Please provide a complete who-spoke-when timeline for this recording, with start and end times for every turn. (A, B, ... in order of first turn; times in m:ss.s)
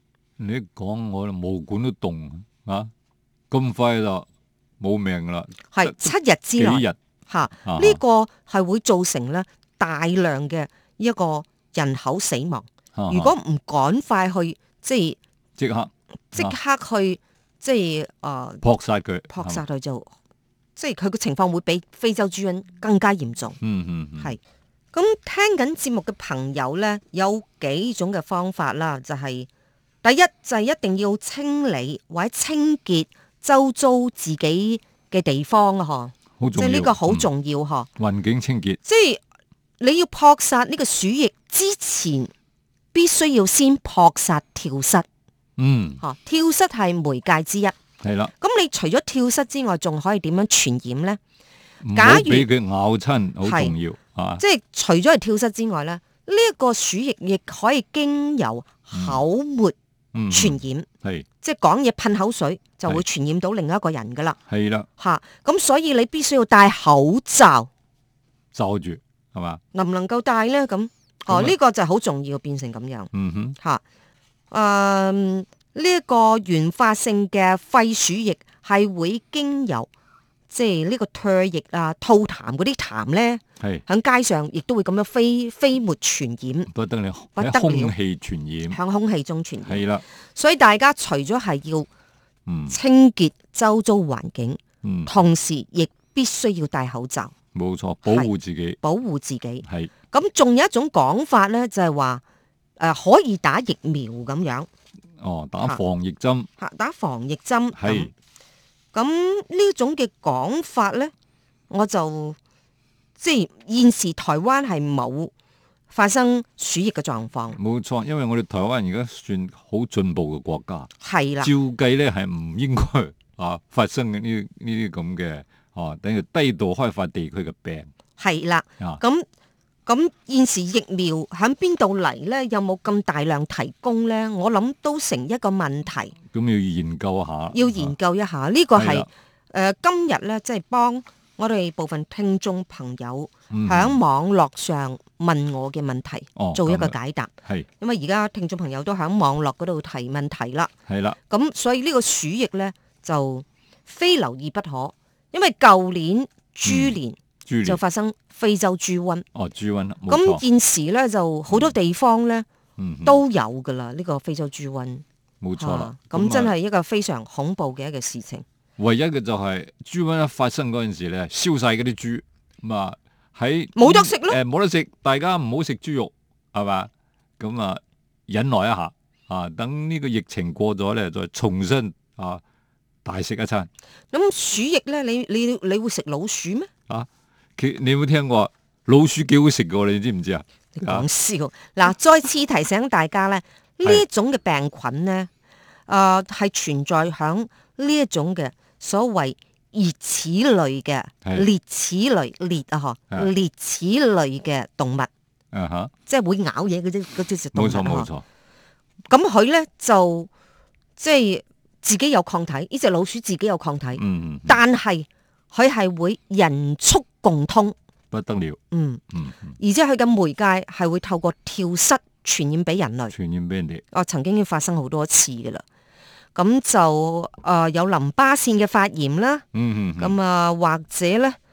0:00.4-0:02.9 A
0:03.5-0:04.3 A
0:04.8-0:07.0 A
0:05.7-0:15.2 B
0:07.6-0:08.0 A
0:13.0-0:13.4 A
0:15.6-0:16.6 A
0:16.3-0:18.6 B
0:18.6-0:19.6 A
0:19.3-0:20.1 B
0:20.8-0:23.6 B
0:23.6-0:24.4 A
0:24.9-0:29.5 B
0:30.0-0:37.9 B
0:36.4-0:37.3 A
0:38.0-0:38.8 A
0:38.8-0:39.2 B
0:39.8-0:42.3 B
0:42.9-0:45.1 B
0:45.6-0:46.0 A
0:46.0-0:47.8 B
0:48.0-0:48.3 A
0:48.4-0:51.2 B
0:51.8-0:54.4 A
0:51.9-0:52.5 B
0:53.4-0:53.7 B
0:54.4-0:59.8 B
0:58.9-0:59.2 A
1:00.1-1:01.3 A
1:00.3-1:00.9 B
1:01.4-1:04.4 B
1:04.5-1:04.9 A
1:05.0-1:07.7 B
1:08.5-1:09.6 A
1:09.7-1:13.8 B
1:11.3-1:11.6 A
1:13.1-1:13.6 A
1:14.5-1:19.9 B
1:20.5-1:26.7 B
1:26.7-1:28.8 A
1:27.4-1:27.9 B
1:28.7-1:29.8 B
1:29.6-1:30.0 A
1:30.4-1:31.9 B
1:32.5-1:32.8 A
1:32.7-1:37.3 B
1:34.8-1:35.1 A
1:37.5-1:38.8 A
1:38.1-1:38.3 B
1:38.8-1:42.2 B
1:39.6-1:39.9 A
1:42.8-1:44.7 B
1:45.2-1:46.5 A
1:46.6-1:48.1 B
1:47.8-1:48.1 A
1:48.9-1:51.1 B
1:51.7-1:52.4 B
1:53.2-1:55.3 B
1:55.9-1:57.6 B
1:57.6-2:00.9 A
2:01.0-2:01.5 B
2:01.4-2:07.9 A
2:08.2-2:09.3 B
2:09.9-2:16.2 B
2:16.3-2:17.9 A
2:17.5-2:30.7 B
2:18.8-2:19.1 A
2:23.5-2:24.0 A
2:26.4-2:27.7 A
2:30.9-2:31.2 A
2:31.3-2:39.3 B
2:36.6-2:37.8 A
2:39.3-2:40.4 A
2:40.1-2:42.5 B
2:41.5-2:41.8 A
2:42.8-2:43.2 A
2:43.0-2:45.0 B
2:45.4-2:46.5 A
2:45.6-2:48.4 B
2:48.8-3:02.4 A
2:53.8-2:54.4 B
3:03.0-3:03.7 A
3:04.1-3:06.7 B
3:06.9-3:11.1 A
3:10.8-3:15.3 B
3:15.9-3:25.1 B
3:25.5-3:25.9 A
3:26.1-3:28.1 B
3:27.5-3:28.2 A
3:29.1-3:30.3 B
3:31.0-3:37.8 B
3:34.0-3:34.6 A
3:38.1-3:38.6 A
3:38.7-3:39.0 B
3:39.1-3:39.5 A
3:39.6-3:43.1 B
3:43.1-3:43.8 A
3:43.9-3:45.6 B
3:46.4-3:49.4 B
3:49.5-3:50.2 A
3:50.0-3:51.4 B